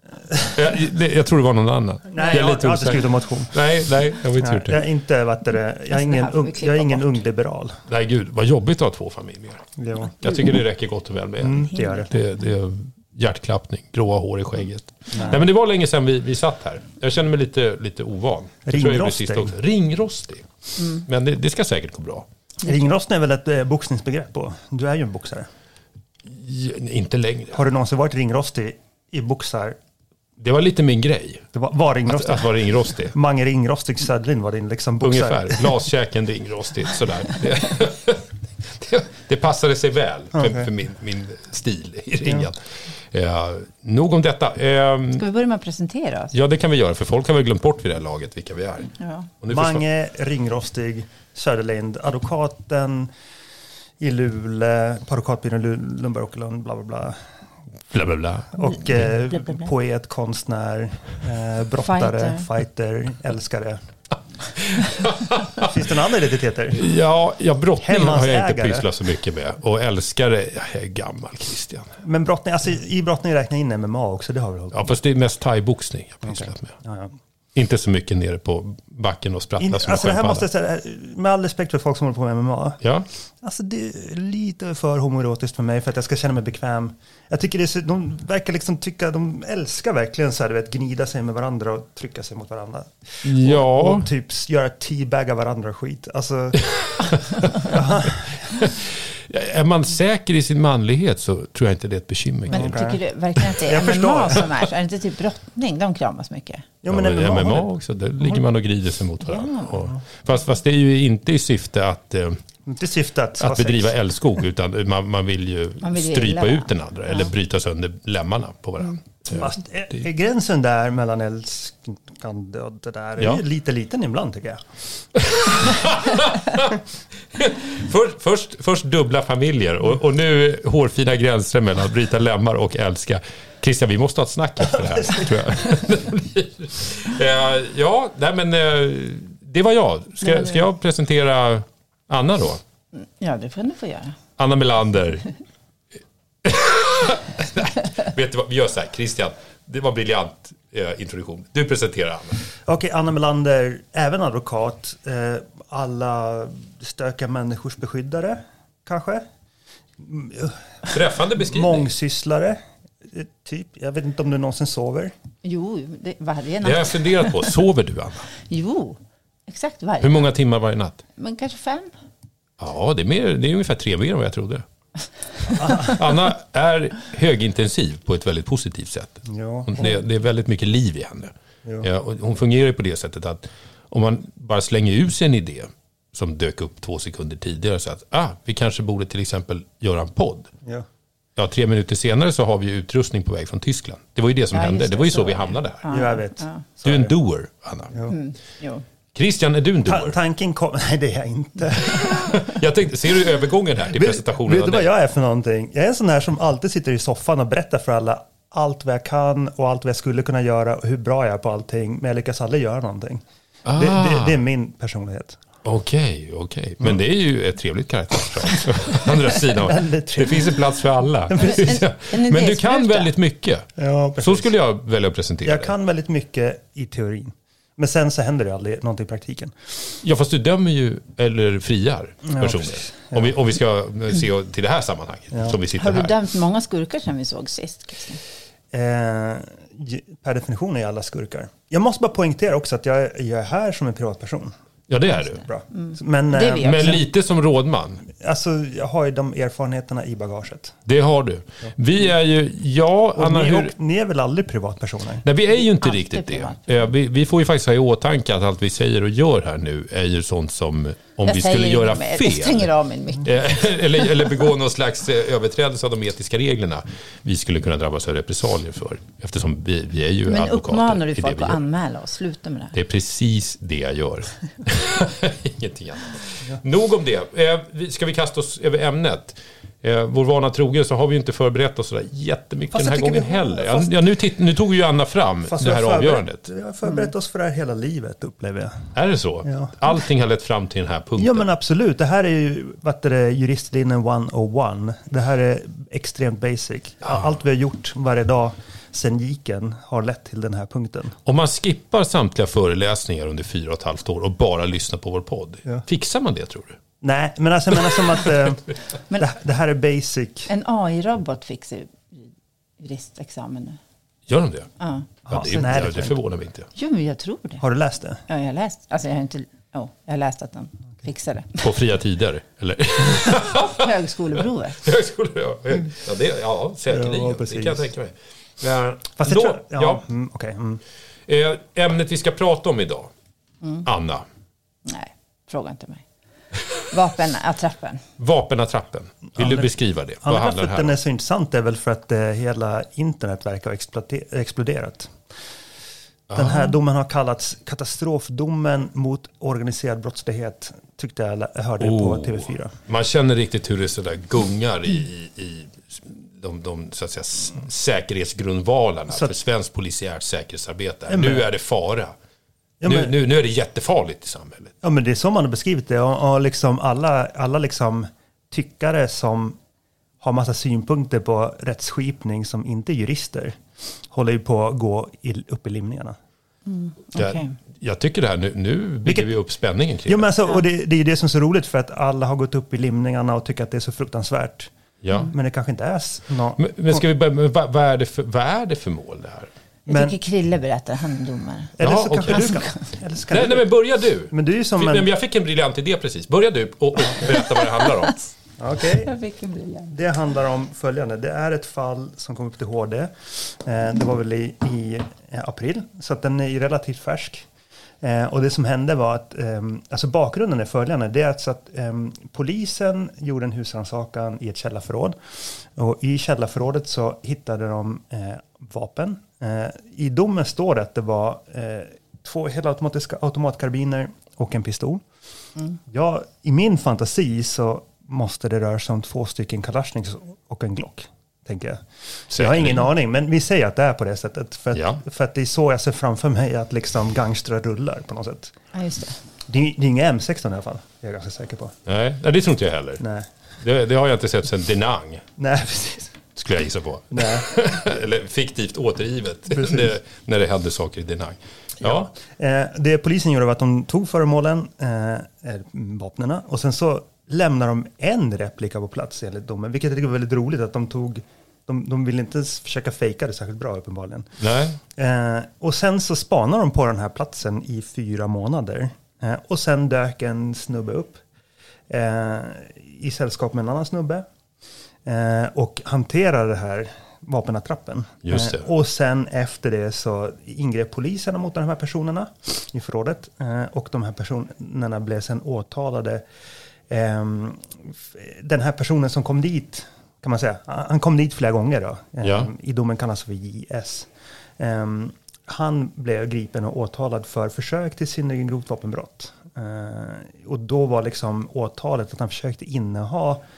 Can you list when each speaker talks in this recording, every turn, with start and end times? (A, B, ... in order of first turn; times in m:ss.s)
0:00.5-0:04.8 A
0:02.1-0:03.7 B
0:04.4-0:07.8 B
0:05.9-0:07.2 C
0:07.9-0:22.3 A
0:09.8-0:10.4 B
0:11.4-0:12.1 B
0:11.6-0:12.1 C
0:15.1-0:15.4 B
0:18.6-0:19.6 B
0:22.6-0:25.5 B
0:26.2-0:27.6 A
0:27.5-0:29.8 B
0:30.4-0:31.5 A
0:31.5-0:35.8 B
0:32.1-0:33.1 A
0:35.0-0:45.3 A
0:40.3-0:40.7 B
0:45.2-0:46.3 C
0:46.3-0:49.8 A
0:49.0-0:49.3 C
0:49.5-0:53.1 B
0:54.0-0:57.3 B
0:57.9-0:59.1 A
0:58.5-1:03.8 B
1:01.8-1:02.5 C
1:04.6-1:05.7 A
1:05.6-1:06.9 B
1:06.7-1:12.0 A
1:07.8-1:08.9 B
1:12.0-1:15.0 B
1:14.7-1:16.8 A
1:16.2-1:17.2 B
1:17.5-1:20.5 A
1:19.6-1:22.8 B
1:22.8-1:23.1 A
1:23.4-1:38.7 B
1:33.2-1:34.1 A
1:36.6-1:37.8 A
1:38.5-1:42.8 A
1:42.5-1:43.0 B
1:42.5-1:46.7 C
1:43.6-1:44.5 B
1:46.8-1:47.7 B
1:46.9-1:52.4 A
1:49.2-1:49.9 C
1:52.7-1:54.0 B
1:53.4-1:59.6 A
1:55.8-1:57.3 C
1:59.3-2:04.8 B
2:05.2-2:06.8 A
2:05.5-2:05.9 B
2:07.3-2:22.6 A
2:14.7-2:15.8 B
2:20.3-2:20.6 C
2:22.9-2:24.2 C
2:24.4-2:25.3 A
2:26.4-2:32.4 A
2:32.7-2:39.3 B
2:40.0-2:45.1 B
2:40.9-2:41.9 A
2:45.4-2:47.5 C
2:46.6-2:48.3 A
2:48.5-2:50.2 C
2:50.0-2:51.0 A
2:51.2-2:51.9 C
2:52.6-2:54.6 A
2:55.5-2:56.0 B
2:55.6-3:10.5 A
2:59.3-2:59.9 B
3:11.4-3:15.8 A
3:14.5-3:16.6 C
3:15.9-3:17.2 B
3:16.8-3:18.0 A
3:18.1-3:18.8 C
3:19.1-3:20.2 A
3:19.8-3:22.6 B
3:21.8-3:24.9 A
3:23.9-3:35.4 B
3:33.6-3:34.4 A
3:35.6-3:45.7 A
3:38.9-3:40.6 B
3:41.4-3:43.1 C
3:43.8-3:44.5 B
3:45.4-3:49.9 B
3:50.0-3:56.2 A
3:52.2-3:53.4 B
3:55.3-3:55.6 B
3:55.8-3:58.2 C
3:58.7-4:04.5 B
4:04.9-4:05.4 A
4:05.4-4:07.0 B
4:05.7-4:07.0 C
4:06.6-4:08.0 A
4:08.1-4:10.8 B
4:10.9-4:13.7 A
4:13.2-4:15.3 B
4:15.2-4:22.7 A
4:15.6-4:16.9 C
4:21.2-4:24.3 C
4:23.2-4:31.6 A
4:30.3-4:32.8 C
4:32.7-4:46.4 A
4:42.7-4:43.9 B
4:45.5-4:49.8 B
4:48.9-4:51.5 A
4:51.2-5:01.2 B
5:01.2-5:06.8 A
5:07.0-5:10.5 B
5:10.5-5:13.8 C
5:14.3-5:14.7 A
5:14.8-5:15.6 C
5:15.3-5:16.2 B
5:15.3-5:16.7 A
5:16.8-5:17.6 C
5:17.6-5:18.2 B
5:18.3-5:21.8 C
5:21.6-5:30.0 A
5:23.4-5:24.9 C
5:26.9-5:27.9 B
5:29.2-5:30.8 B
5:31.3-5:33.1 A
5:33.8-5:34.3 A
5:34.8-5:36.1 C
5:36.8-5:38.1 C
5:38.2-5:41.0 A
5:39.3-5:45.2 B
5:46.3-5:46.7 A
5:46.3-5:52.8 B
5:51.8-6:02.1 A
5:59.1-5:59.4 B
6:01.1-6:01.5 B
6:02.8-6:03.1 B
6:02.8-6:04.7 A
6:04.8-6:09.6 B
6:10.2-6:16.2 B
6:16.7-6:17.6 C
6:17.2-6:20.3 A
6:20.1-6:24.7 B
6:25.0-6:25.3 A
6:25.3-6:27.0 B
6:26.6-6:29.5 A
6:29.9-6:32.8 C
6:29.9-6:30.2 B
6:31.8-6:33.7 B
6:31.8-6:32.7 A
6:33.3-6:38.2 A
6:34.3-6:35.1 B
6:37.4-6:38.3 C
6:38.6-6:39.1 B
6:38.8-6:40.0 C
6:39.9-6:47.5 B
6:48.0-7:05.0 B
7:05.9-7:18.6 B
7:12.3-7:12.9 A
7:14.7-7:15.0 A
7:18.7-7:19.2 C
7:19.5-7:21.8 B
7:21.9-7:23.0 A
7:23.0-7:23.3 B
7:23.6-7:25.3 A
7:25.4-7:26.2 B
7:26.4-7:32.1 A
7:27.1-7:27.5 B
7:29.5-7:29.9 B
7:31.8-7:51.2 B
7:44.4-7:44.8 A
7:51.9-7:54.3 B
7:55.0-8:06.2 B
7:58.2-7:58.6 A
8:06.9-8:23.4 B
8:12.2-8:12.5 A